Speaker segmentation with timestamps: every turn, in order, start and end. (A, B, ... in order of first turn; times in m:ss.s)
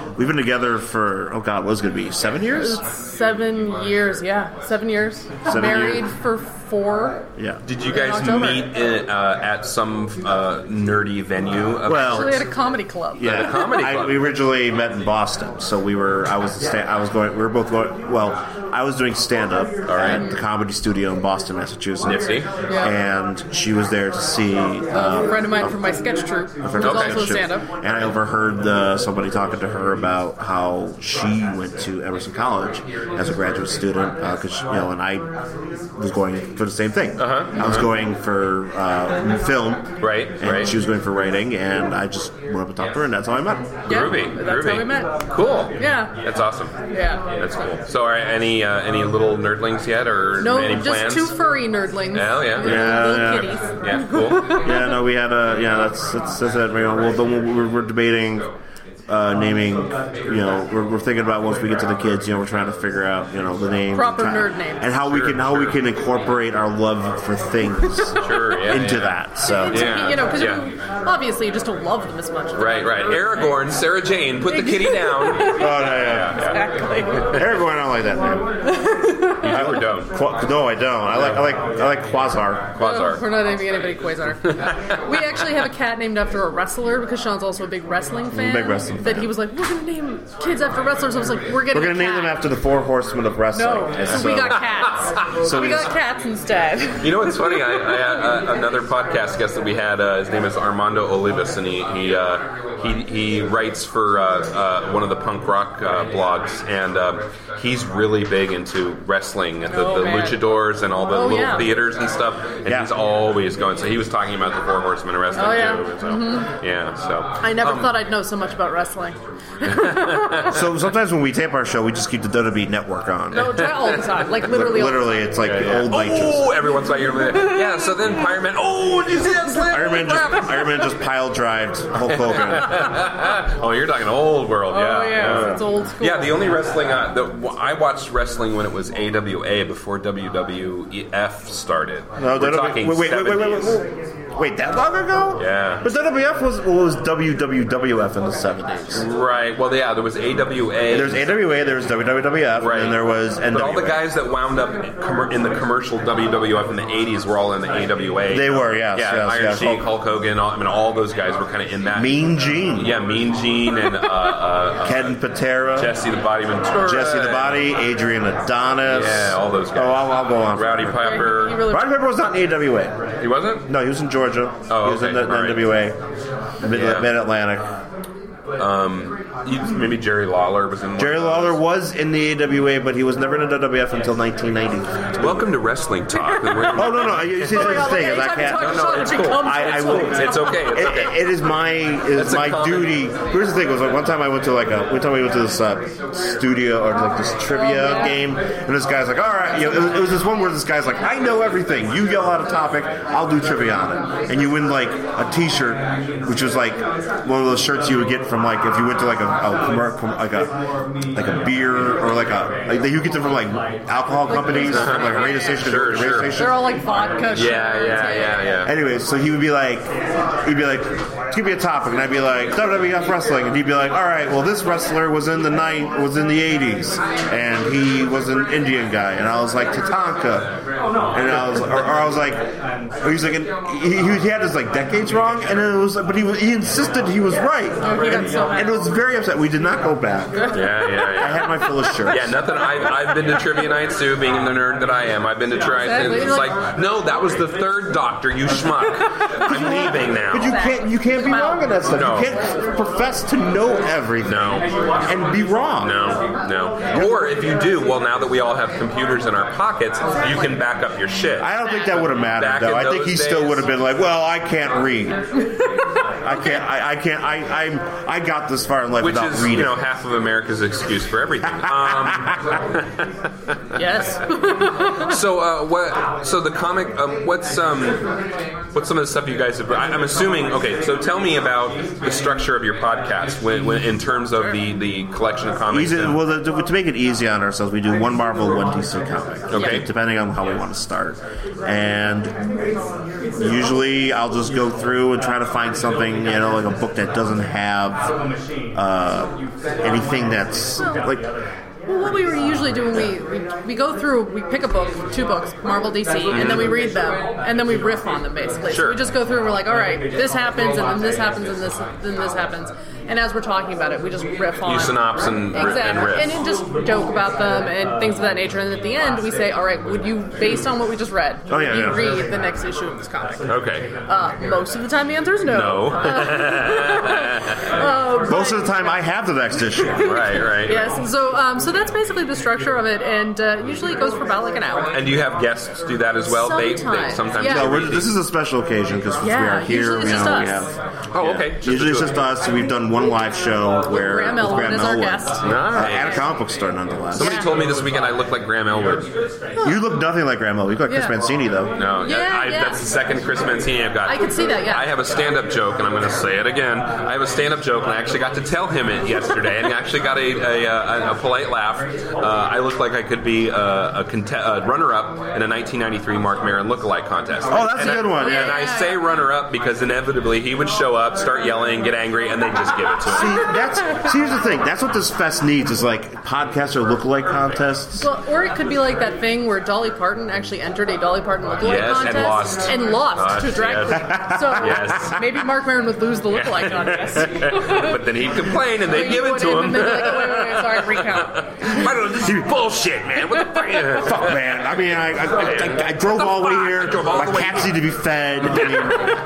0:00.2-0:02.8 A
0:02.5-0:07.2 B
0:05.4-0:06.1 A
0:07.4-0:07.6 A
0:07.6-0:12.4 C
0:07.8-0:08.7 B
0:11.8-0:12.4 A
0:11.9-0:13.5 B
0:13.1-0:25.8 A
0:13.2-0:14.2 C
0:19.9-0:20.2 C
0:20.0-0:20.4 B
0:22.0-0:22.5 C
0:22.6-0:22.9 B
0:24.9-0:27.7 B
0:26.6-0:35.3 A
0:26.8-0:27.3 C
0:36.0-0:43.8 A
0:37.2-0:37.9 C
0:40.0-0:40.7 C
0:43.8-0:46.8 C
0:43.9-0:45.1 B
0:45.8-0:46.1 B
0:46.9-0:47.2 B
0:47.3-0:51.4 C
0:50.4-0:55.0 B
0:52.1-0:53.1 C
0:52.6-0:53.6 A
0:53.8-0:54.6 C
0:54.6-0:58.5 A
0:59.1-1:09.9 A
1:03.9-1:04.9 B
1:05.0-1:05.8 C
1:08.2-1:10.6 C
1:09.4-1:13.5 B
1:12.5-1:16.6 C
1:14.5-1:17.4 B
1:15.5-1:16.4 A
1:17.3-1:18.5 A
1:18.7-1:19.6 B
1:19.4-1:20.1 C
1:19.5-1:22.7 A
1:21.1-1:21.4 C
1:22.7-1:23.2 C
1:22.8-1:32.4 B
1:28.3-1:29.3 A
1:31.7-1:34.6 A
1:33.5-1:37.8 B
1:35.4-1:35.9 A
1:37.0-1:57.9 C
1:49.7-1:50.4 B
1:51.0-1:51.7 B
1:55.3-1:56.5 B
1:57.4-2:00.3 B
1:59.6-2:00.6 C
2:00.5-2:03.4 A
2:03.3-2:05.3 B
2:03.5-2:04.0 C
2:04.5-2:06.5 A
2:05.4-2:10.2 C
2:07.3-2:08.3 B
2:09.4-2:10.9 B
2:09.7-2:12.8 A
2:12.2-2:23.8 C
2:14.7-2:16.4 B
2:15.2-2:15.6 A
2:22.2-2:29.0 A
2:25.4-2:25.8 C
2:28.9-2:31.5 C
2:30.9-2:34.0 A
2:32.6-2:42.2 C
2:38.3-2:39.8 A
2:41.9-2:43.0 A
2:42.8-2:45.2 C
2:44.8-2:46.0 A
2:45.7-2:47.6 C
2:46.8-2:47.0 B
2:46.8-2:53.0 A
2:48.8-2:51.7 C
2:51.0-2:52.1 B
2:53.2-2:53.7 C
2:53.7-2:56.0 A
2:54.7-2:55.7 C
2:56.6-2:57.7 A
2:56.6-2:57.1 C
2:58.6-3:01.6 C
3:01.0-3:05.5 A
3:05.2-3:11.1 C
3:06.2-3:10.6 B
3:06.7-3:30.5 A
3:12.1-3:12.9 C
3:17.5-3:18.2 B
3:31.1-3:36.8 A
3:34.3-3:35.6 B
3:34.6-3:36.3 C
3:36.2-3:38.5 B
3:37.3-3:38.7 C
3:38.6-3:39.9 A
3:40.4-3:50.5 A
3:51.1-3:52.5 A
3:53.0-4:00.5 A
3:57.8-3:58.9 B
4:00.3-4:01.1 B
4:00.5-4:01.5 C
4:01.2-4:02.3 A
4:02.1-4:10.6 C
4:05.8-4:06.6 B
4:09.5-4:11.9 B
4:09.5-4:16.0 A
4:11.9-4:12.3 C
4:14.2-4:14.7 C
4:15.8-4:21.5 C
4:16.9-4:17.2 A
4:21.4-4:25.2 A
4:22.2-4:23.7 C
4:26.2-4:29.8 A
4:29.0-4:32.3 C
4:31.7-4:32.1 A
4:33.7-4:35.1 B
4:35.1-4:38.0 C
4:38.7-4:46.2 C
4:45.7-4:52.3 A
4:49.5-4:49.9 C
4:49.5-4:49.8 B
4:53.4-4:58.1 A
4:58.7-5:01.3 A
5:00.8-5:01.0 B
5:01.8-5:23.4 B
5:06.3-5:06.8 C
5:08.7-5:09.0 C
5:14.6-5:16.4 C
5:21.5-5:22.1 A
5:23.5-5:23.9 C
5:24.0-5:29.0 B
5:25.5-5:27.6 C
5:28.2-5:30.1 A
5:29.6-5:35.1 B
5:30.0-5:30.9 C
5:34.9-5:38.1 C
5:36.2-5:37.9 B
5:37.4-5:47.5 A
5:39.2-5:40.7 B
5:41.1-5:42.2 C
5:43.9-5:46.2 B
5:45.4-5:46.2 C
5:47.1-5:49.1 C
5:47.2-5:47.5 B
5:49.6-5:49.8 B
5:49.6-5:51.7 A
5:50.8-5:51.1 B
5:51.7-6:13.5 C
5:52.0-5:52.8 B
5:54.0-5:54.9 B
6:07.5-6:08.5 A
6:07.8-6:09.1 B
6:13.1-6:18.1 A
6:18.0-6:28.0 B
6:21.6-6:25.3 C
6:24.0-6:24.8 A
6:26.3-6:34.3 C
6:28.9-6:31.3 B
6:32.2-6:32.5 A
6:34.0-6:39.0 A
6:35.3-6:37.7 C
6:38.5-6:39.1 C